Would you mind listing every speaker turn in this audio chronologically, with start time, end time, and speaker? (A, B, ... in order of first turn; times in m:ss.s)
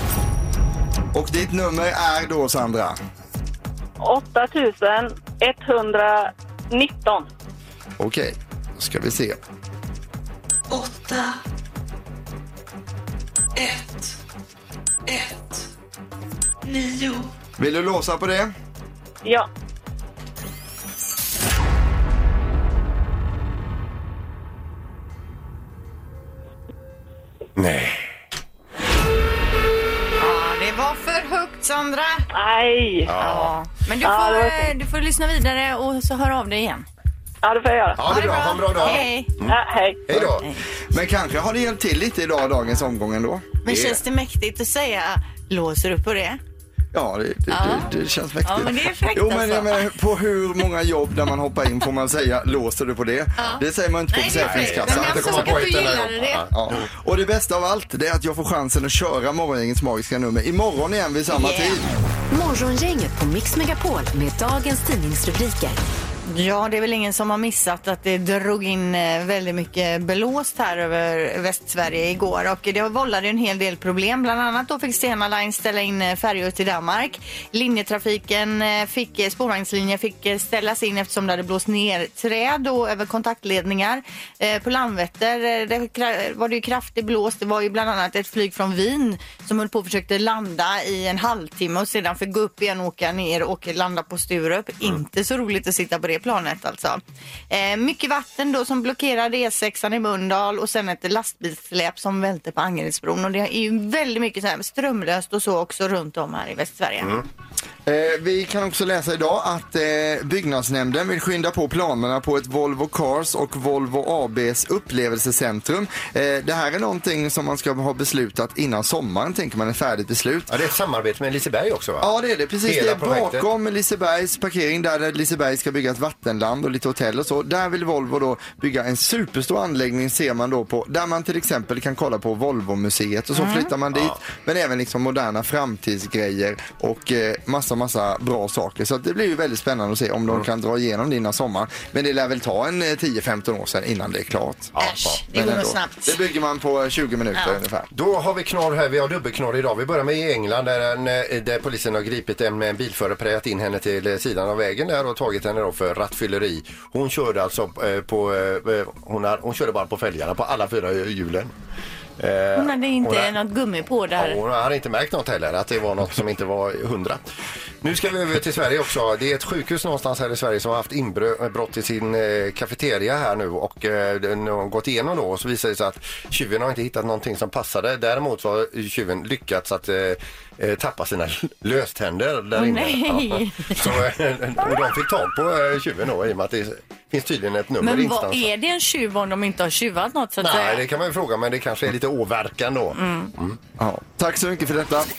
0:01.1-0:03.0 A
0:04.0-0:07.3 B
0:08.0-0:09.4 A
0:10.7-0:11.4 C
0:13.6-0:14.2 C
0:15.1-0:15.7 C
0:16.6-0:17.3 C
0:17.6-0:18.5 A
0:27.6-0:28.1 D
0:30.2-0:32.3 E
0:32.3-0:33.1 B
0:33.1-0:33.5 D
0:33.2-0:36.9 E
0:34.0-0:34.7 B
0:37.4-0:40.0 B
0:38.0-0:40.5 D
0:38.0-0:39.3 E
0:40.1-0:40.4 A
0:40.4-0:40.7 E
0:40.9-0:43.5 A
0:43.6-0:46.4 E
0:43.7-0:44.0 D
0:46.9-0:55.7 A
0:47.5-0:47.9 E
0:48.4-0:50.0 E
0:53.4-0:56.5 E
0:54.3-0:56.8 D
0:56.5-1:01.9 A
1:01.3-1:01.8 E
1:02.3-1:05.8 F
1:06.3-1:47.2 E
1:47.0-1:47.3 D
1:47.9-2:00.6 A
2:00.5-2:02.1 D
2:02.0-2:24.8 A
2:02.6-2:03.4 D
2:13.3-2:13.7 E
2:24.8-2:25.2 D
2:24.8-2:26.2 E
2:25.3-2:27.9 A
2:27.9-2:41.5 D
2:42.2-2:43.3 D
2:42.6-2:44.4 E
2:44.2-2:47.2 D
2:47.8-3:08.5 D
3:02.6-3:03.9 E
3:07.8-3:10.8 E
3:10.4-3:13.6 D
3:13.0-3:13.3 E
3:13.8-3:15.1 A